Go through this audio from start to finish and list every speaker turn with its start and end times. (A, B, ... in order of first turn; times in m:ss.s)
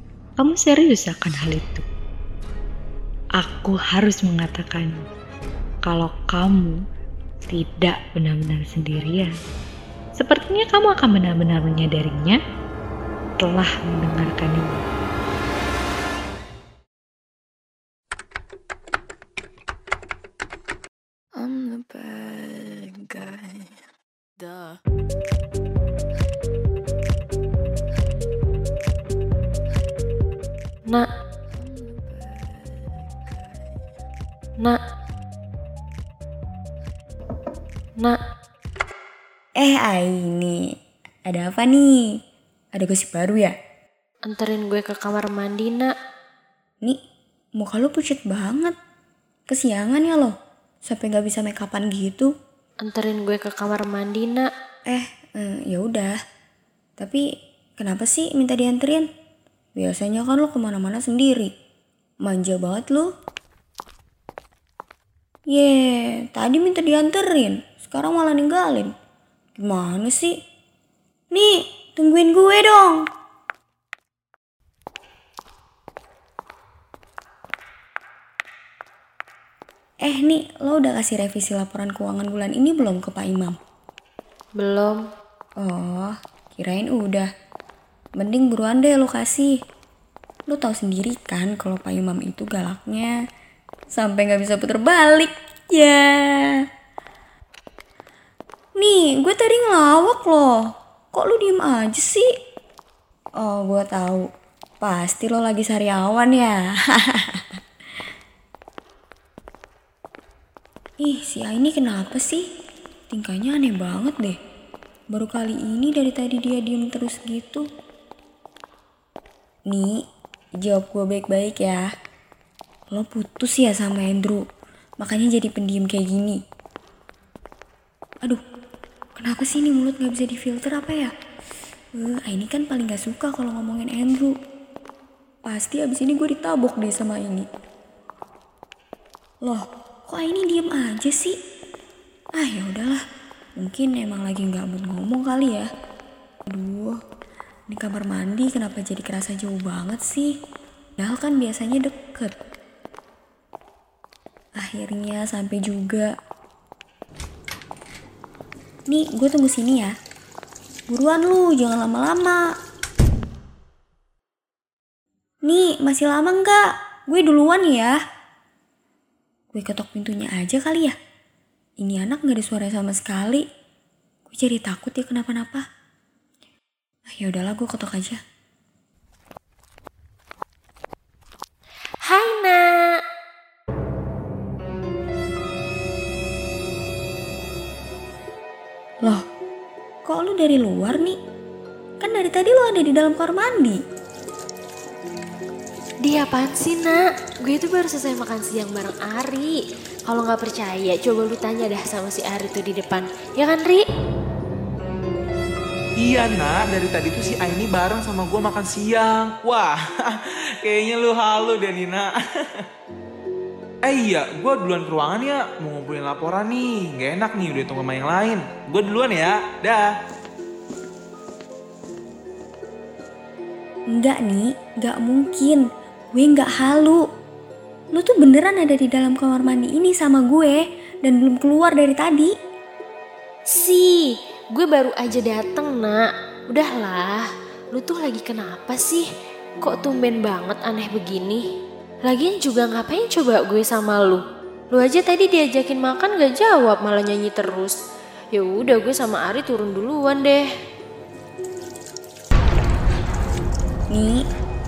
0:00.4-0:01.8 A
0:03.4-0:05.0 A
0:05.8-0:06.8 A
0:07.4-0:09.3 A
0:10.2-0:12.4 A
0:13.4-0:14.8 A
0:21.4-0:23.8 B
0:24.4-0:24.8 B
0:31.6-0:33.7 B
0:39.6-0:40.6 C
0:41.3-0:42.1 C
0:42.8-0:43.5 C
0:44.3-0:45.9 D
0:47.6-0:48.7 C
0:49.5-0:50.3 C
0:50.9-0:52.3 C
0:52.8-0:54.5 D
0:54.9-0:56.1 C
0:57.8-0:59.0 C
0:59.8-1:01.5 C
1:02.2-1:03.1 C
1:05.5-1:08.9 C
1:09.6-1:10.3 C
1:11.3-1:13.0 C
1:20.0-1:23.6 C
1:24.6-1:25.0 D
1:25.6-1:27.3 C
1:28.2-1:29.5 C
1:30.5-1:33.1 C
1:33.9-1:36.4 C
1:38.8-1:40.6 C
1:41.1-1:42.3 C
1:43.4-1:44.2 C
1:44.8-1:46.5 C
1:47.1-1:47.4 C
1:51.0-1:52.4 C
1:53.1-1:54.4 C
1:55.1-1:57.6 C
1:59.7-2:00.0 C
2:00.6-2:01.9 C
2:02.9-2:04.4 C
2:05.0-2:06.4 C
2:09.2-2:11.1 C
2:12.0-2:14.3 C
2:15.4-2:17.5 C
2:19.4-2:21.4 C
2:22.4-2:23.0 C
2:23.6-2:25.7 C
2:26.5-2:27.0 C
2:27.7-2:30.3 C
2:31.0-2:32.3 C
2:34.6-2:36.1 C
2:38.9-2:39.9 C
2:40.9-2:42.4 C
2:45.4-2:48.0 C
2:49.5-2:50.9 C
2:51.8-2:53.4 C
2:54.3-2:55.6 C
2:57.1-2:58.2 C
3:02.0-3:02.9 D
3:10.0-3:11.2 C
3:12.0-3:13.8 C
3:16.0-3:23.8 D
3:26.0-3:32.6 E
3:33.8-3:39.8 E
3:43.9-3:47.0 C
3:47.9-3:52.3 C
3:53.5-3:59.1 D
3:59.6-4:01.4 D
4:02.0-4:07.7 D
4:08.3-4:10.4 D
4:13.9-4:14.2 C